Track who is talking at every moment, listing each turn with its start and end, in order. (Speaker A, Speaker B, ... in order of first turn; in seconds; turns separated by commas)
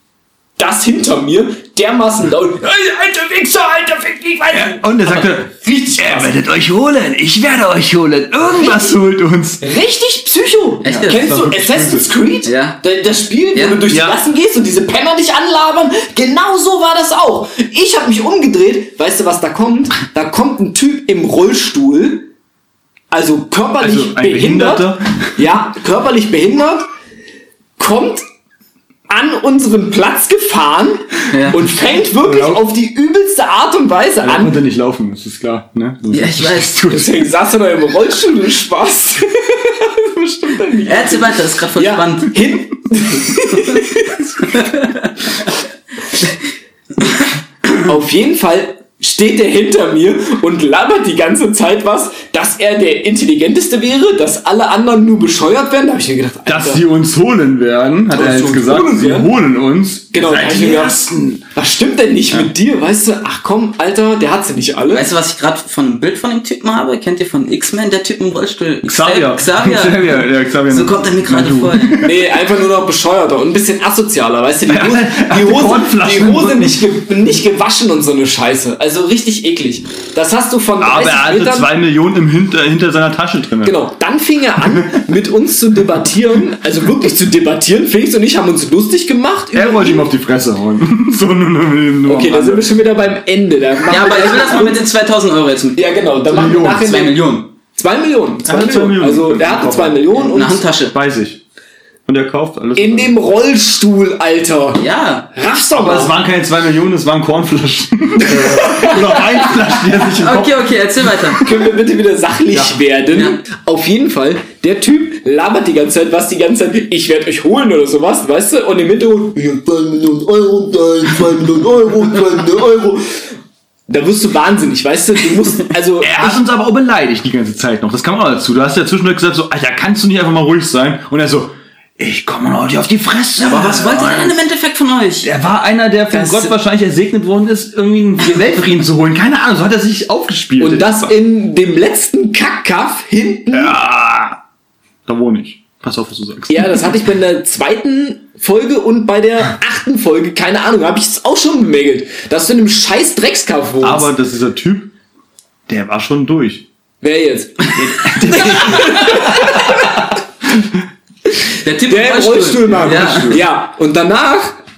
Speaker A: 0.6-6.4, Speaker B: 4.5-9.7, Speaker A: 9.6-22.3, Speaker C: 10.8-11.3, Speaker B: 10.8-12.2, Speaker C: 12.4-12.8, Speaker C: 13.5-13.8, Speaker B: 13.9-14.2, Speaker A: 23.1-26.9, Speaker B: 23.8-25.4, Speaker A: 27.8-28.2, Speaker A: 29.1-34.6, Speaker C: 31.3-31.8, Speaker B: 32.2-32.7, Speaker B: 34.2-37.3, Speaker C: 36.1-36.9, Speaker A: 36.9-44.6, Speaker C: 40.9-42.4, Speaker C: 44.4-45.1, Speaker A: 47.8-56.8, Speaker B: 56.5-61.5, Speaker A: 58.1-59.3, Speaker A: 60.1-65.1, Speaker C: 64.9-72.1, Speaker B: 68.8-72.2, Speaker A: 72.0-81.7, Speaker B: 74.7-76.8, Speaker B: 80.8-83.8, Speaker A: 83.6-90.1, Speaker B: 84.6-84.9, Speaker B: 89.5-92.8, Speaker A: 92.0-94.8, Speaker C: 93.9-97.5, Speaker A: 95.8-100.6, Speaker B: 96.3-96.8, Speaker B: 98.5-100.1, Speaker C: 100.1-100.9, Speaker B: 100.9-101.4, Speaker B: 102.0-103.1, Speaker A: 102.8-106.1, Speaker C: 104.7-105.3, Speaker B: 105.7-111.7, Speaker A: 108.2-109.5, Speaker C: 109.9-111.4, Speaker A: 111.4-123.3, Speaker B: 112.5-112.8, Speaker A: 123.9-126.4, Speaker B: 126.0-134.4, Speaker C: 133.4-135.3, Speaker B: 135.2-141.1, Speaker C: 136.1-136.5, Speaker A: 140.6-143.8, Speaker B: 143.5-144.4, Speaker B: 145.1-147.0, Speaker A: 146.5-154.1, Speaker B: 153.8-154.9, Speaker B: 155.7-156.7, Speaker A: 157.0-160.1, Speaker B: 157.7-160.7, Speaker C: 161.6-163.4, Speaker A: 161.8-164.6, Speaker B: 162.8-163.4